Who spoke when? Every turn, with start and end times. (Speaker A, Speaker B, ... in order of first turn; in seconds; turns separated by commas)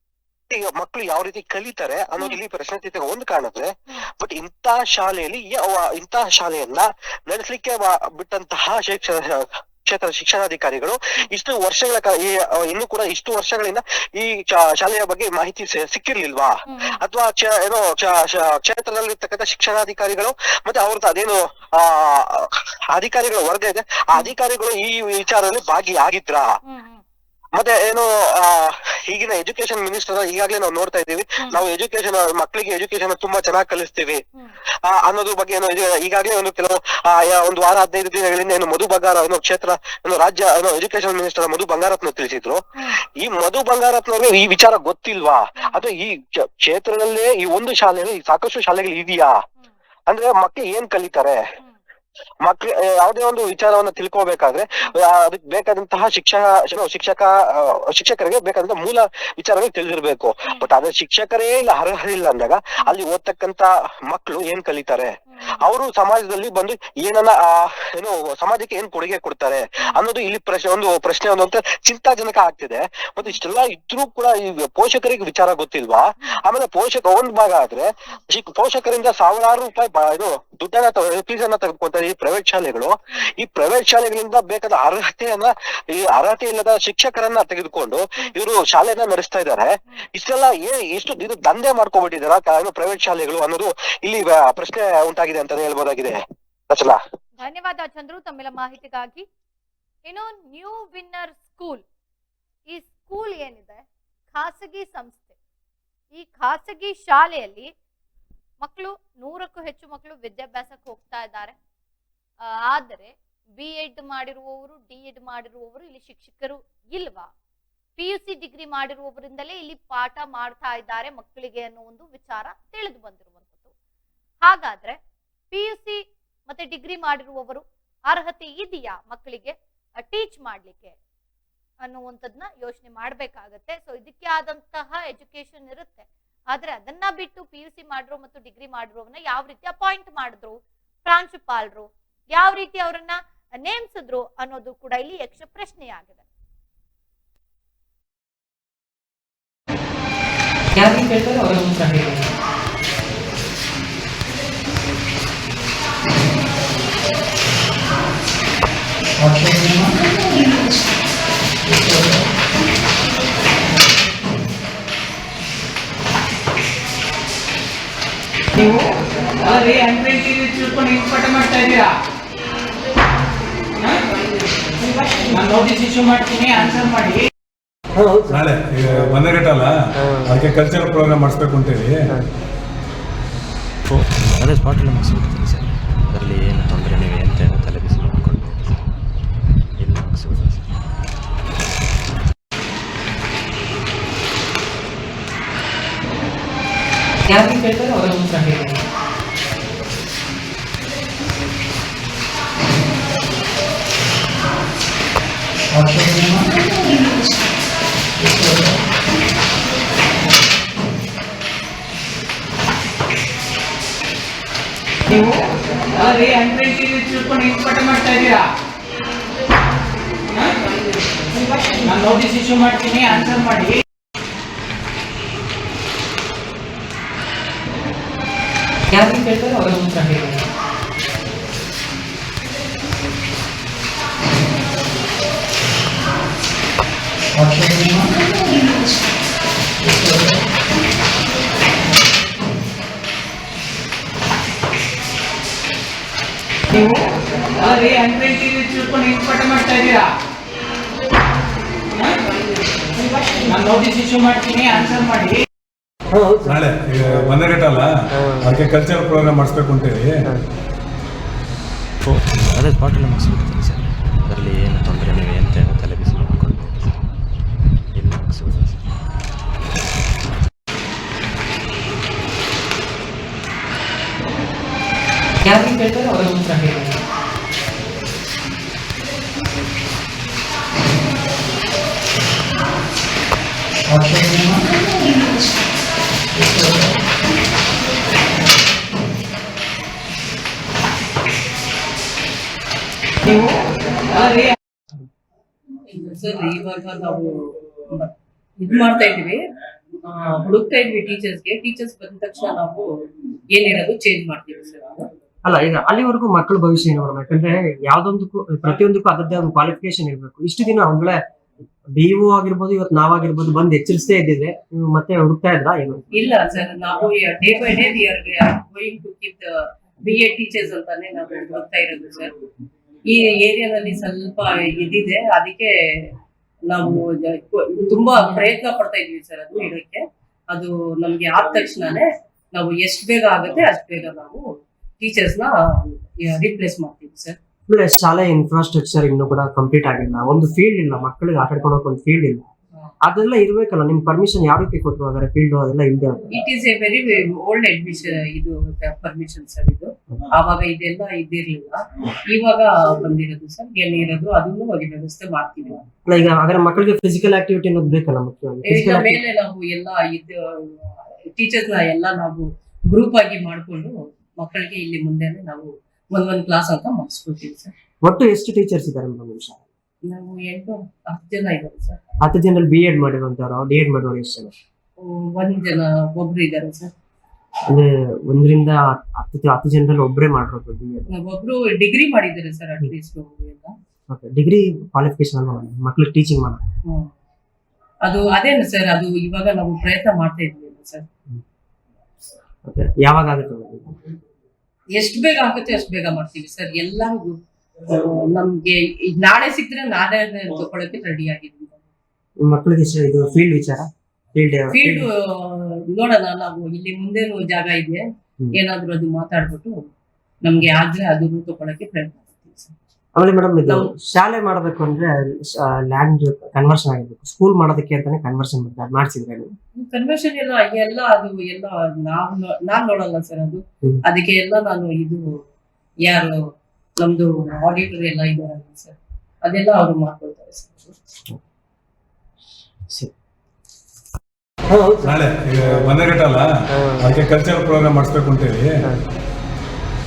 Speaker A: 0.5-26.5, Speaker B: 16.7-17.0, Speaker B: 26.6-27.0, Speaker A: 27.6-34.2, Speaker A: 34.8-49.4, Speaker A: 50.1-51.4, Speaker A: 52.4-97.0, Speaker B: 65.3-65.6, Speaker B: 97.4-99.2, Speaker B: 100.1-101.8, Speaker B: 102.7-105.4, Speaker B: 106.1-107.7, Speaker B: 108.6-111.5, Speaker B: 112.5-117.3, Speaker B: 118.0-123.7, Speaker B: 124.5-125.0, Speaker B: 125.5-131.0, Speaker B: 131.8-146.2, Speaker C: 150.8-152.2, Speaker C: 169.4-171.8, Speaker C: 175.2-177.2, Speaker D: 178.2-181.9, Speaker E: 183.9-188.9, Speaker E: 189.8-190.7, Speaker C: 216.0-218.4, Speaker C: 221.6-223.8, Speaker C: 229.0-230.3, Speaker C: 247.6-250.0, Speaker C: 253.3-255.3, Speaker D: 256.3-257.9, Speaker D: 258.4-260.2, Speaker E: 262.1-267.1, Speaker E: 267.9-268.9, Speaker C: 276.1-276.7, Speaker F: 295.9-297.3, Speaker F: 297.9-299.4, Speaker F: 300.1-302.9, Speaker F: 303.5-305.1, Speaker G: 305.4-311.2, Speaker G: 311.9-316.1, Speaker F: 316.1-322.3, Speaker F: 323.1-325.7, Speaker F: 326.7-334.4, Speaker F: 335.0-337.4, Speaker G: 337.7-342.4, Speaker G: 343.1-346.3, Speaker F: 346.3-355.9, Speaker G: 356.1-359.2, Speaker F: 358.6-367.7, Speaker G: 368.0-369.6, Speaker F: 370.1-372.0, Speaker G: 372.2-374.5, Speaker F: 375.0-376.9, Speaker G: 377.7-381.1, Speaker F: 381.1-383.7, Speaker G: 384.1-386.6, Speaker F: 388.1-391.1, Speaker G: 392.7-393.9, Speaker F: 394.9-401.9, Speaker G: 402.4-405.1, Speaker F: 404.7-408.1, Speaker F: 408.6-409.8, Speaker F: 410.4-412.7, Speaker G: 413.2-419.5, Speaker F: 419.8-425.2, Speaker F: 426.1-426.4, Speaker F: 427.0-431.0, Speaker G: 434.7-435.0, Speaker D: 435.0-436.5, Speaker D: 437.1-438.6